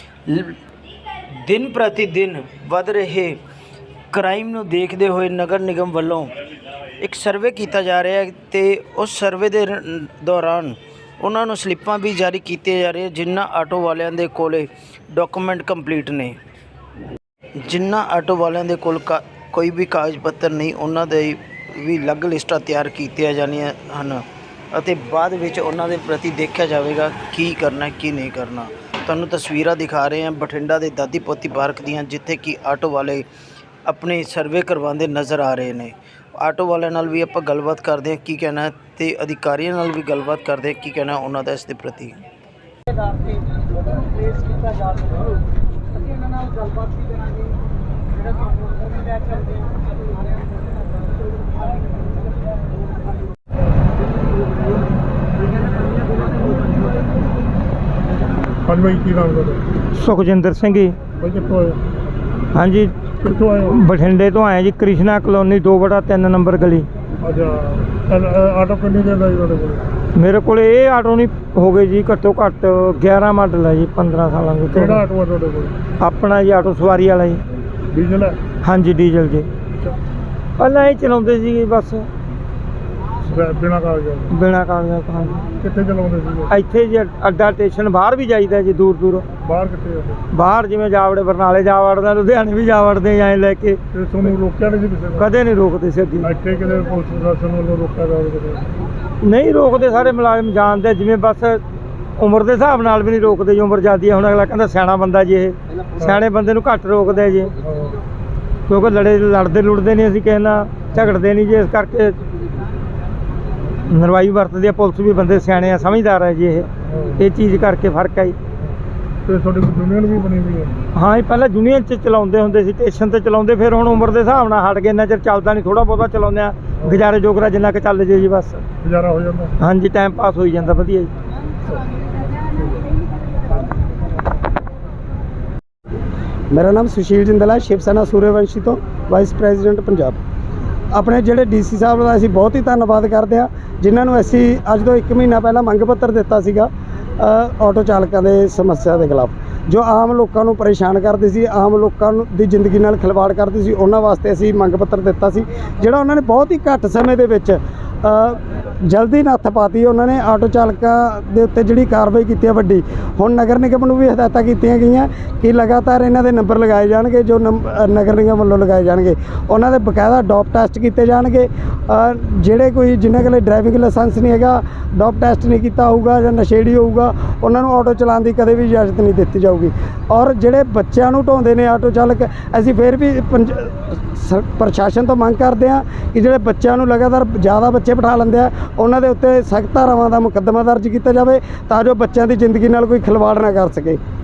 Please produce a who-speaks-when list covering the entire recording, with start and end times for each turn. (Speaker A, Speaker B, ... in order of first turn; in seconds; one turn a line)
Speaker A: 0.3-0.6
Speaker A: 1.4-3.4
Speaker A: 4.1-6.3
Speaker A: 7.0-16.4
Speaker A: 17.6-33.3
Speaker A: 33.9-42.2
Speaker B: 58.6-59.6
Speaker C: 60.0-61.0
Speaker B: 61.2-61.8
Speaker C: 62.6-63.2
Speaker B: 63.2-63.8
Speaker C: 63.8-66.9
Speaker B: 67.2-69.9
Speaker C: 70.2-75.0
Speaker B: 74.7-75.8
Speaker C: 76.0-77.4
Speaker B: 77.9-78.4
Speaker C: 78.6-79.5
Speaker C: 80.6-82.1
Speaker B: 83.3-84.3
Speaker C: 84.4-85.5
Speaker B: 85.6-86.5
Speaker C: 86.5-89.3
Speaker B: 89.4-90.2
Speaker C: 90.4-93.8
Speaker B: 93.9-95.3
Speaker C: 95.2-96.3
Speaker B: 96.2-98.7
Speaker C: 99.2-101.6
Speaker C: 102.2-107.5
Speaker B: 107.6-108.0
Speaker C: 108.7-112.2
Speaker C: 113.9-116.7
Speaker B: 116.8-117.3
Speaker C: 117.2-118.4
Speaker B: 118.6-120.8
Speaker C: 121.0-128.6
Speaker B: 128.8-129.5
Speaker C: 129.6-131.1
Speaker B: 132.5-132.8
Speaker D: 136.5-140.2
Speaker D: 140.9-194.0